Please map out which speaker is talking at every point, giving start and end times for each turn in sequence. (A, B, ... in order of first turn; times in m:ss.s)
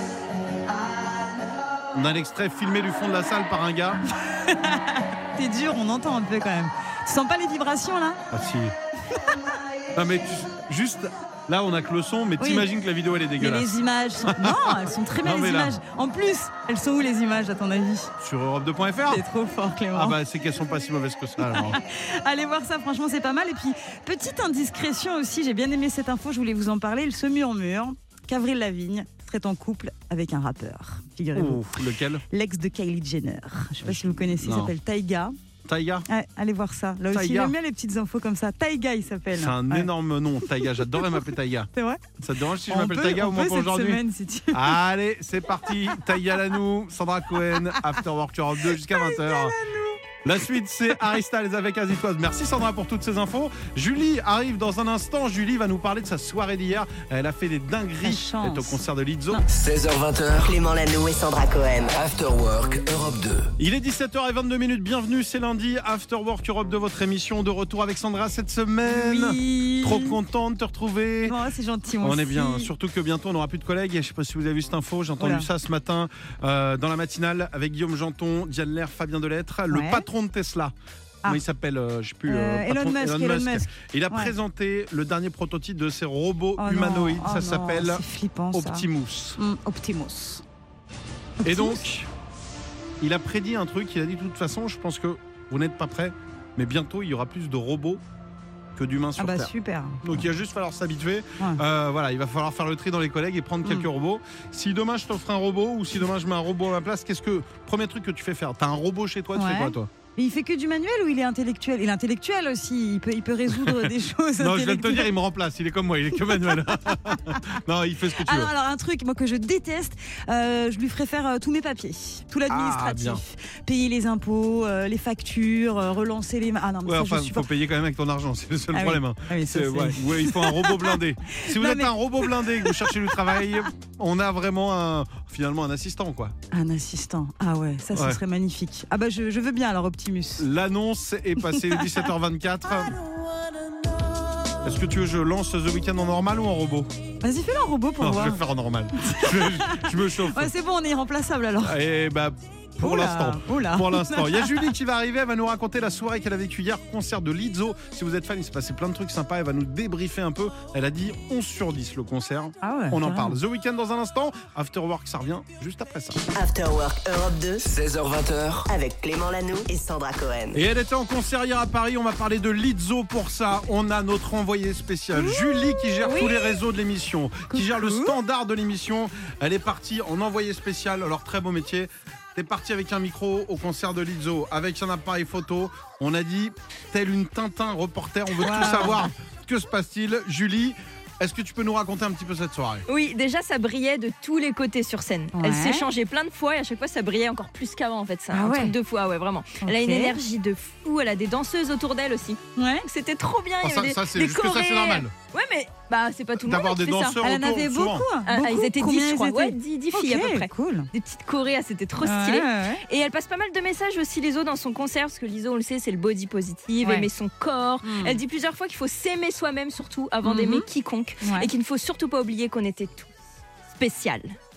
0:01.9-0:04.0 A
0:04.3-0:08.2 B
0:08.3-0:08.7 A
0:10.0-0:15.8 A
0:12.4-0:12.7 B
0:13.4-0:18.1 B
0:18.2-0:19.2 A
0:19.1-0:20.2 B
0:19.9-0:21.8 A
0:21.4-0:31.7 B
0:31.3-0:32.2 A
0:32.3-0:35.3 B
0:33.8-0:34.7 A
0:35.6-0:36.1 A
0:36.1-0:39.9 B
0:37.1-0:37.6 A
0:39.3-0:49.6 A
0:40.5-0:42.1 B
0:42.6-0:44.8 B
0:47.5-0:48.0 B
0:48.7-0:50.0 B
0:50.2-0:59.4 A
0:58.0-0:59.4 B
0:59.5-1:00.6 C
1:00.4-1:01.9 D
1:01.9-1:03.5 C
1:03.6-1:11.4 A
1:08.8-1:10.2 B
1:11.2-1:12.7 B
1:12.0-1:20.7 A
1:15.2-1:15.5 B
1:19.7-1:20.1 B
1:21.2-1:29.4 A
1:22.3-1:24.3 B
1:26.6-1:28.9 B
1:29.4-1:30.4 B
1:31.4-1:31.8 B
1:31.4-1:32.1 A
1:33.0-1:38.0 A
1:38.8-1:49.9 A
1:39.2-1:40.3 B
1:49.4-1:55.1 B
1:53.6-1:58.5 A
1:56.2-1:57.5 B
1:58.2-2:07.5 B
2:02.5-2:03.2 A
2:06.9-2:16.3 A
2:08.7-2:13.7 B
2:16.5-2:20.5 B
2:17.9-2:18.2 A
2:20.4-2:23.0 A
2:21.4-2:22.1 B
2:24.6-2:26.9 A
2:27.2-2:28.4 B
2:28.0-2:30.5 A
2:29.0-2:31.8 B
2:31.6-2:46.2 A
2:32.8-2:34.7 B
2:42.6-2:43.4 B
2:46.4-2:47.6 D
2:47.6-2:48.7 C
2:48.7-2:50.6 D
2:50.5-3:12.8 A
2:55.2-2:56.5 B
2:57.5-2:58.2 B
3:08.4-3:09.1 B
3:12.9-3:27.2 E
3:15.4-3:15.9 B
3:18.3-3:18.8 B
3:19.6-3:20.2 B
3:22.6-3:22.9 B
3:23.6-3:25.1 A
3:26.4-3:28.1 A
3:27.2-3:30.9 B
3:28.3-3:43.1 E
3:32.0-3:32.8 B
3:36.8-3:37.1 B
3:37.8-3:38.2 B
3:40.2-3:40.7 B
3:41.2-3:41.5 B
3:43.8-3:44.4 E